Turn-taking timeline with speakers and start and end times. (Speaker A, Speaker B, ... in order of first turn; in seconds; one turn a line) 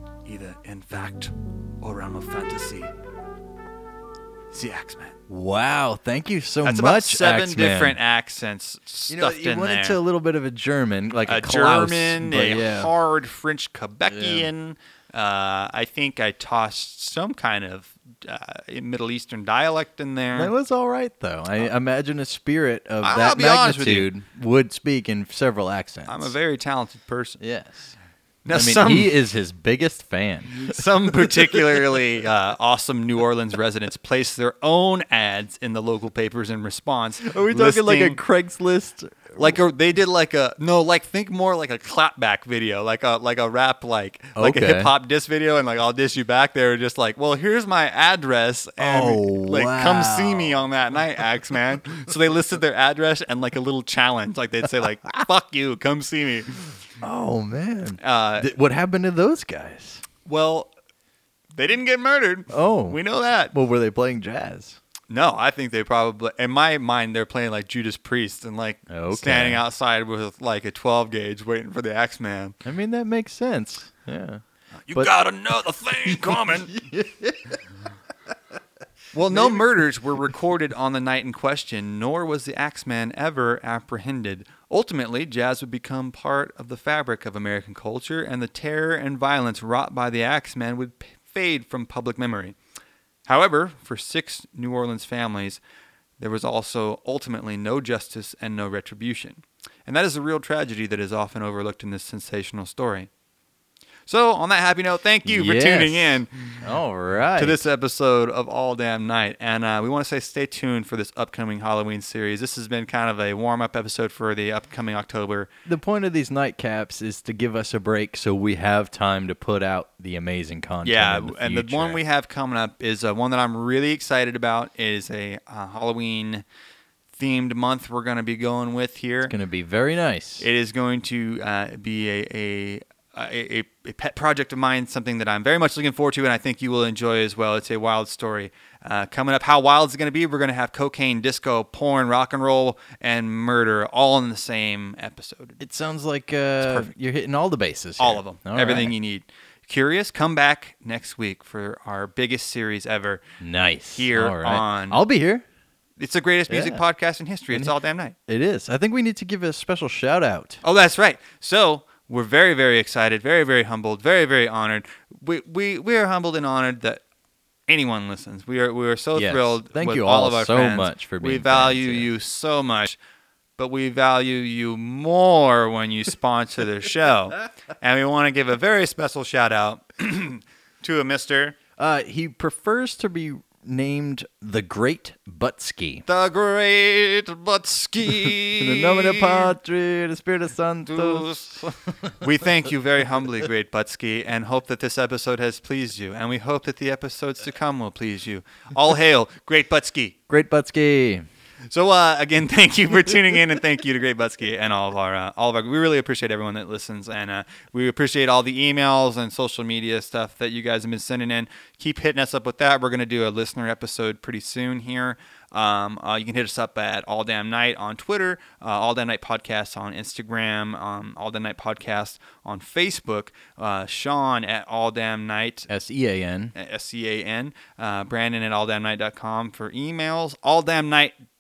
Speaker A: 0.2-2.9
Speaker A: 4.5-5.2
Speaker B: 5.3-8.0
Speaker A: 6.6-10.0
Speaker B: 9.1-12.9
Speaker A: 11.3-20.5
Speaker B: 14.1-14.5
Speaker B: 20.4-26.4
Speaker A: 23.0-24.1
Speaker A: 26.1-27.4
Speaker B: 27.4-27.9
Speaker A: 28.4-29.2
Speaker B: 28.5-31.8
Speaker A: 30.5-38.2
Speaker B: 37.2-39.6
Speaker A: 39.4-56.7
Speaker B: 44.4-44.9
Speaker B: 48.8-50.6
Speaker B: 57.0-60.0
Speaker A: 58.0-58.5
Speaker A: 60.2-60.7
Speaker A: 61.5-63.5
Speaker B: 62.5-63.0
Speaker B: 63.5-64.8
Speaker A: 65.1-72.6
Speaker B: 68.9-69.6
Speaker B: 72.6-74.4
Speaker A: 74.9-76.8
Speaker B: 76.1-77.6
Speaker A: 79.1-92.6
Speaker B: 79.3-79.7
Speaker A: 93.3-95.6
Speaker A: 96.2-103.1
Speaker A: 104.1-106.7
Speaker B: 105.2-107.7
Speaker A: 107.4-115.5
Speaker B: 115.7-122.0
Speaker A: 120.8-126.4
Speaker A: 127.1-129.3
Speaker B: 129.2-130.5
Speaker A: 130.4-145.6
Speaker B: 145.6-148.9
Speaker A: 146.6-146.9
Speaker A: 148.0-153.2
Speaker B: 153.4-155.4
Speaker A: 154.0-155.0
Speaker A: 156.0-158.2
Speaker B: 156.5-156.8
Speaker B: 157.5-157.8
Speaker B: 158.3-160.6
Speaker A: 160.6-167.0
Speaker A: 167.7-173.0
Speaker B: 169.2-172.1
Speaker A: 173.6-181.6
Speaker B: 181.8-186.1
Speaker A: 186.1-189.5
Speaker B: 188.2-192.1
Speaker A: 190.8-200.2
Speaker B: 200.3-201.2
Speaker A: 201.7-225.7
Speaker B: 225.7-226.5
Speaker A: 226.6-231.2